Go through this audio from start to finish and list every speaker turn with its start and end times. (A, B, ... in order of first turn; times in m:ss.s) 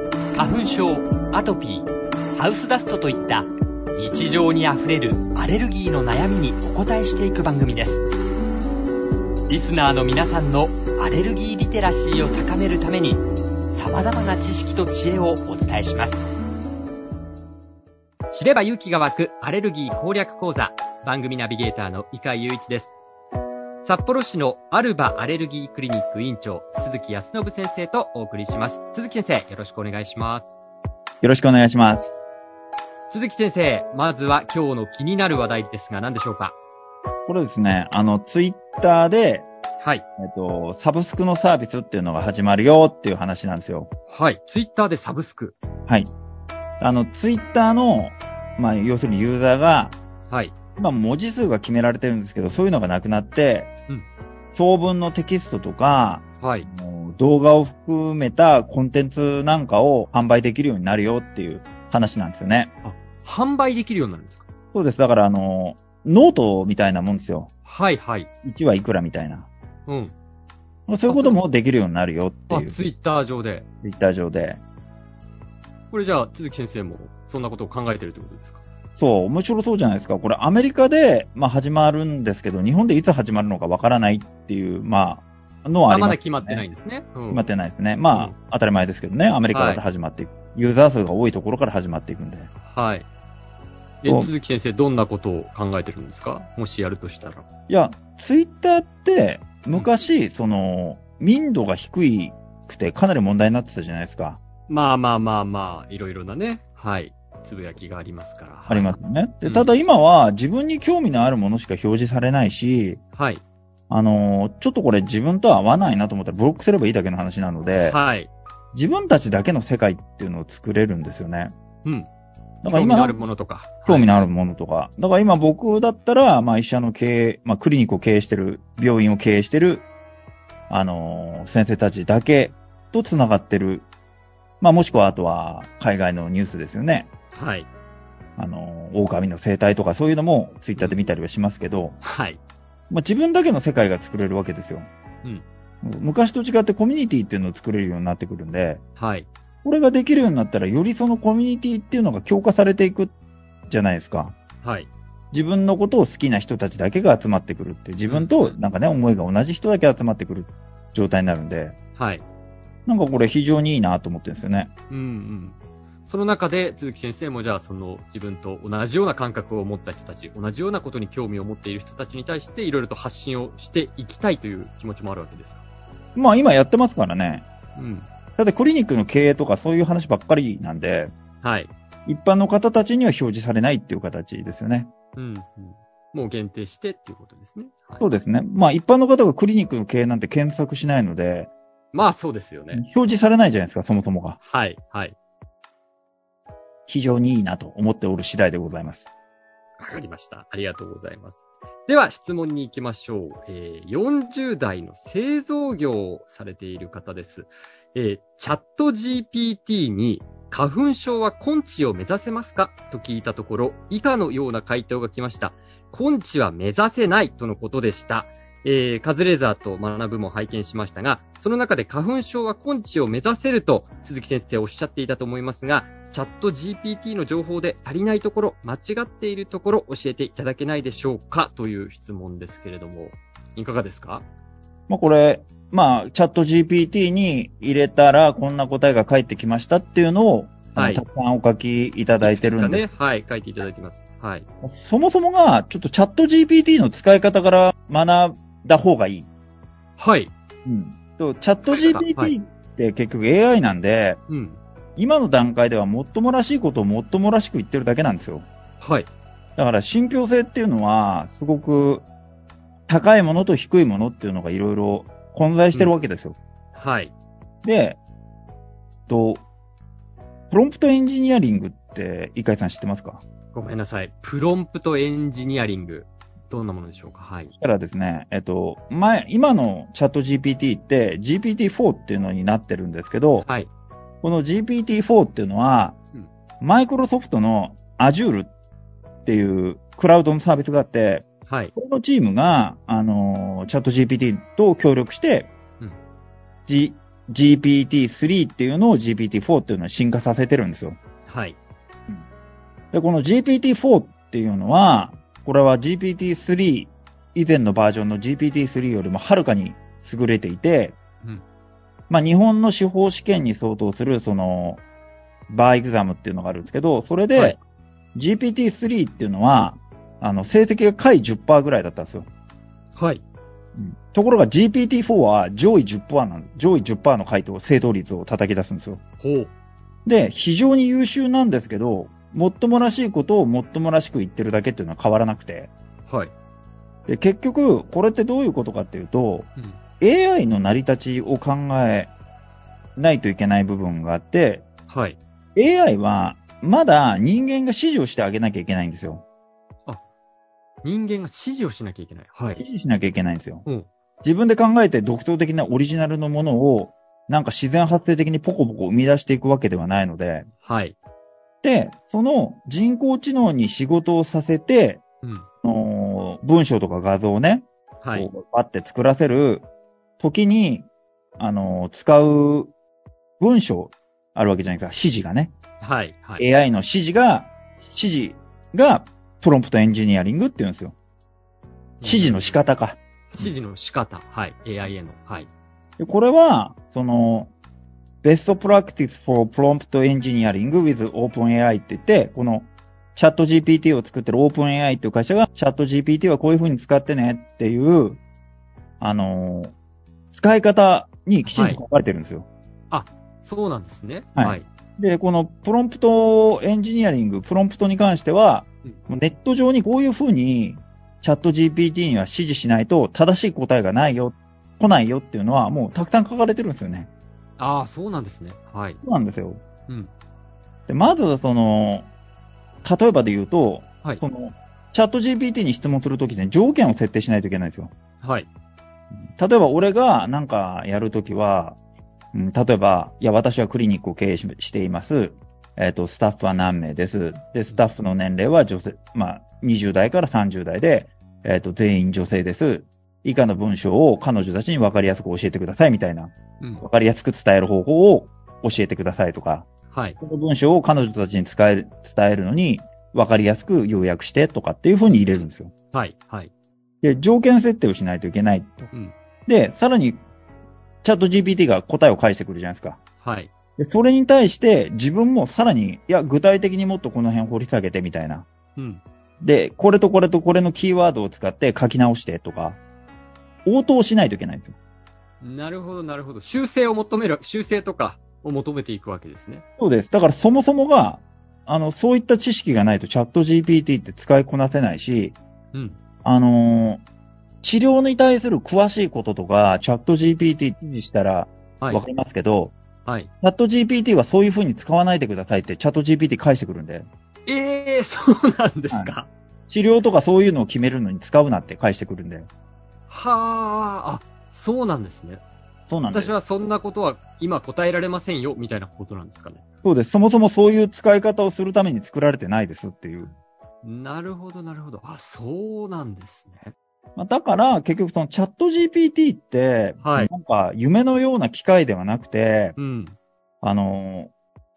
0:00.3-0:08.0 A
0:09.5-0:13.2 A
0:13.8-0:16.2 A
0:18.3-0:23.0 A
0:23.8-0:30.6 A
0:31.2-0:32.2 B
0:33.1-0:36.5 A
0:37.3-0:39.5 B
0:40.2-0:43.9 B
0:44.1-0:45.6 A
0:46.8-0:50.0 B
0:50.3-0:50.6 A
0:50.8-0:53.7 B
0:54.5-1:02.7 B
0:56.4-0:56.7 A
1:02.8-1:04.5 A
1:04.7-1:07.5 B
1:07.6-1:08.3 A
1:08.4-1:09.5 B
1:09.9-1:10.1 A
1:10.9-1:12.8 B
1:11.1-1:11.4 A
1:12.5-1:13.6 A
1:13.8-1:14.6 B
1:15.9-1:18.6 A
1:19.0-1:26.6 B
1:25.9-1:27.5 A
1:27.3-1:32.5 B
1:29.5-1:29.8 A
1:32.6-1:33.1 A
1:34.0-1:37.5 A
1:34.0-1:34.3 B
1:37.7-1:44.4 B
1:44.7-1:49.8 A
1:48.7-1:53.0 B
1:53.2-1:53.4 A
1:53.9-1:58.0 B
1:57.8-1:58.3 A
1:58.7-2:01.5 B
2:02.6-2:03.2 B
2:02.7-2:04.3 A
2:03.9-2:09.9 B
2:10.7-2:13.9 B
2:14.6-2:17.1 B
2:17.3-2:17.7 A
2:18.4-2:22.0 B
2:20.8-2:21.1 A
2:22.0-2:22.4 A
2:22.9-2:24.9 B
2:25.8-2:28.8 B
2:29.0-2:29.3 A
2:29.6-2:33.1 B
2:33.7-2:34.4 B
2:34.6-2:34.9 A
2:35.3-2:41.8 B
2:38.0-2:38.6 A
2:42.0-2:42.2 A
2:42.9-2:44.7 B
2:44.9-2:55.6 A
2:56.2-2:57.5 B
2:57.8-2:58.1 A
2:58.4-3:01.1 B
3:01.4-3:01.7 A
3:02.1-3:04.9 B
3:05.2-3:08.1 A
3:08.0-3:11.5 B
3:11.9-3:12.8 A
3:12.7-3:14.4 B
3:14.4-3:15.2 A
3:16.9-3:19.1 B
3:19.8-3:54.2 A
3:54.9-4:02.8 B
4:00.7-4:01.0 A
4:02.2-4:04.5 A
4:04.6-4:09.3 B
4:10.0-4:10.3 A
4:10.7-4:14.2 B
4:11.7-4:12.4 A
4:14.3-4:14.6 A
4:15.0-4:18.5 B
4:18.8-4:19.1 A
4:19.6-4:22.1 B
4:22.9-4:26.4 B
4:25.7-4:26.0 A
4:26.8-4:27.1 A
4:27.6-4:28.0 B
4:29.1-4:29.4 B
4:30.5-4:33.2 B
4:33.5-4:37.6 A
4:37.6-4:43.5 B
4:43.4-4:43.7 A
4:44.2-4:46.0 B
4:46.6-4:48.5 B
4:49.3-4:55.5 B
4:51.5-4:51.7 A
4:56.7-5:01.0 B
5:01.3-5:01.6 A
5:02.9-5:11.0 B
5:12.1-5:14.8 B
5:15.5-5:17.6 B
5:17.3-5:17.6 A
5:18.2-5:22.3 B
5:23.0-5:23.2 A
5:23.8-5:29.0 B
5:29.2-5:29.5 A
5:30.0-5:35.7 B
5:36.1-5:36.3 A
5:37.1-5:39.5 B
5:40.0-5:42.1 B
5:43.0-5:44.7 B
5:44.9-5:45.2 A
5:45.6-5:49.2 B
5:50.8-5:52.6 A
5:52.6-5:53.7 B
5:54.2-6:00.5 B
6:00.6-6:01.0 A
6:01.6-6:05.0 B
6:05.2-6:05.5 A
6:05.6-6:09.7 B
6:08.0-6:08.3 A
6:10.2-6:10.9 B
6:11.4-6:12.7 B
6:13.4-6:15.5 B
6:15.8-6:16.4 A
6:16.4-6:21.0 B
6:22.0-6:22.6 A
6:22.0-6:23.5 B
6:23.3-6:25.5 A
6:26.0-6:27.5 B
6:28.2-6:38.2 B
6:39.0-6:39.7 B
6:40.3-6:42.5 B
6:41.4-6:41.8 A
6:42.9-6:44.7 A
6:44.4-6:57.1 B
6:57.6-6:59.0 A
6:59.0-6:59.6 B
7:00.9-7:02.1 B
7:02.8-7:07.9 B
7:08.2-7:08.5 A
7:09.4-7:11.8 B
7:12.3-7:29.7 B
7:29.9-7:30.2 A
7:30.2-7:35.7 B
7:35.2-7:36.5 A
7:37.0-7:38.9 B
7:39.5-7:40.2 B
7:41.0-7:43.0 B
7:43.2-7:43.5 A
7:43.8-7:48.5 B
7:48.8-7:49.0 A
7:49.4-7:52.8 B
7:53.7-7:54.8 B
7:55.4-7:59.6 A
7:59.8-8:05.4 B
8:05.7-8:06.0 A
8:06.2-8:07.0 B
8:07.6-8:12.8 B
8:13.0-8:13.3 A
8:13.4-8:17.1 B
8:17.5-8:19.3 A
8:19.7-8:22.5 B
8:23.1-8:25.4 A
8:25.9-8:26.4 B
8:26.1-8:29.6 A
8:29.8-8:33.3 B
8:33.8-8:36.7 A
8:37.2-8:42.8 B
8:40.0-8:40.3 A
8:42.8-8:43.2 A
8:43.6-8:44.3 B